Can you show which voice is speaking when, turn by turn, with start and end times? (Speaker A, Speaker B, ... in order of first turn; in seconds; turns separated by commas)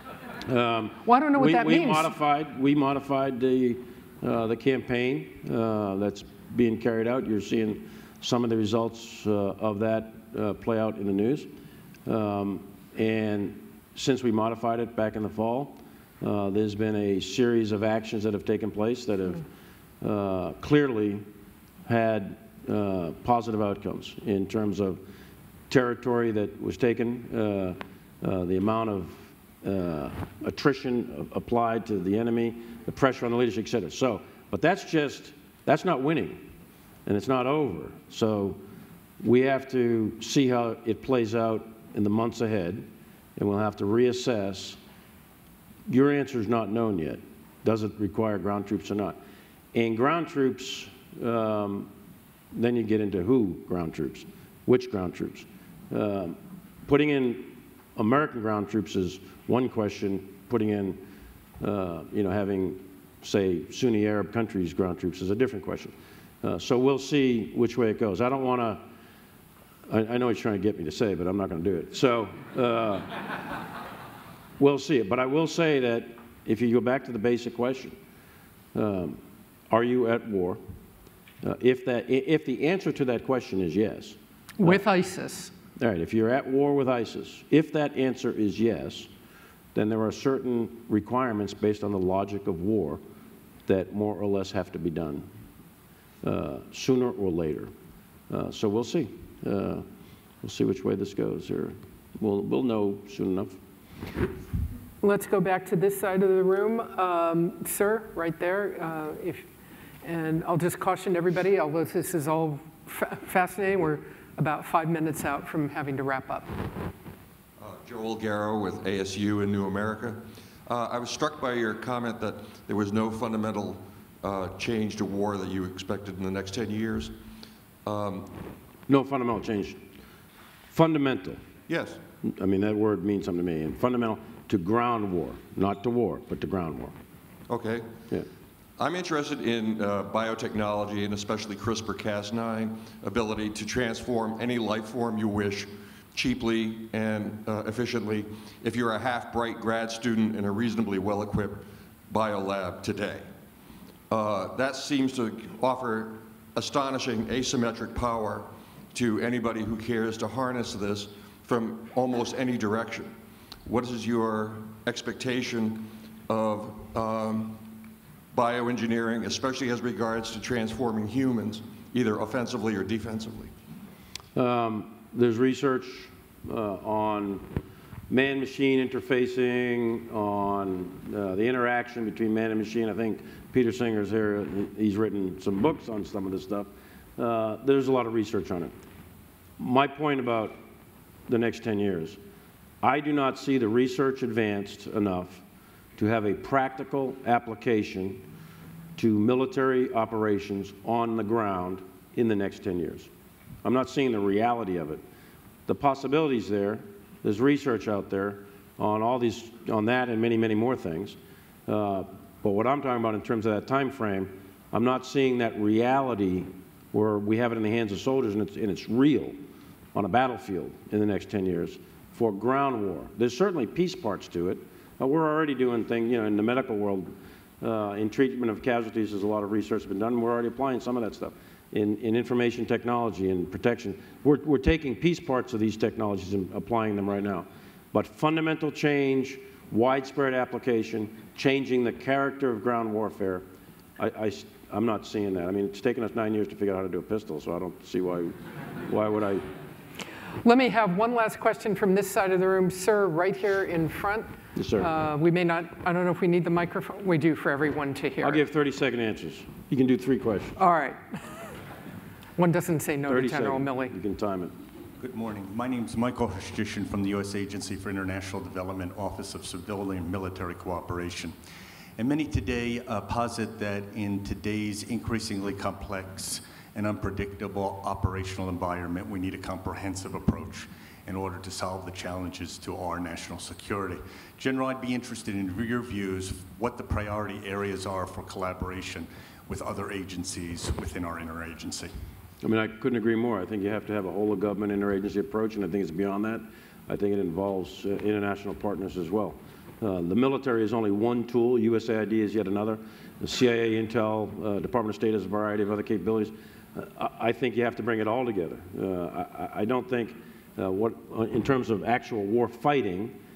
Speaker A: 0.4-11.5, Speaker B: 1.0-2.1, Speaker A: 12.1-19.4, Speaker A: 20.0-21.2, Speaker A: 21.9-25.0, Speaker A: 25.7-36.4, Speaker A: 37.0-38.6, Speaker A: 39.2-44.8, Speaker A: 45.9-49.2, Speaker A: 49.7-51.9, Speaker A: 52.5-61.0, Speaker A: 61.6-68.8, Speaker A: 69.9-73.1, Speaker A: 74.6-78.0, Speaker A: 78.7-79.2, Speaker A: 79.7-80.6, Speaker A: 81.4-84.8, Speaker B: 84.6-85.5, Speaker A: 85.8-89.1, Speaker A: 89.7-93.0, Speaker A: 93.7-95.3, Speaker A: 96.2-97.7, Speaker A: 98.3-99.8, Speaker A: 100.4-103.6, Speaker B: 105.0-109.5, Speaker B: 110.0-116.5, Speaker C: 117.6-127.1, Speaker C: 127.8-128.3, Speaker A: 128.9-129.8, Speaker A: 130.7-131.4, Speaker C: 131.7-132.0, Speaker A: 132.2-136.9, Speaker C: 137.5-137.8, Speaker C: 138.8-153.2, Speaker C: 154.1-163.1, Speaker C: 163.7-167.6, Speaker C: 168.3-173.5, Speaker A: 174.3-177.4, Speaker A: 178.1-188.7, Speaker A: 189.6-190.6, Speaker A: 191.3-192.2, Speaker A: 192.8-195.4, Speaker A: 196.0-198.2, Speaker A: 198.9-203.1, Speaker A: 203.6-205.0, Speaker A: 205.7-219.3, Speaker A: 219.9-227.1, Speaker A: 227.6-243.4, Speaker A: 244.0-249.4, Speaker B: 250.4-258.4, Speaker A: 254.6-254.9, Speaker A: 258.2-260.6, Speaker B: 260.6-261.0, Speaker B: 262.4-263.9, Speaker A: 263.1-264.5, Speaker D: 265.0-271.4, Speaker D: 272.0-291.9, Speaker A: 292.4-313.1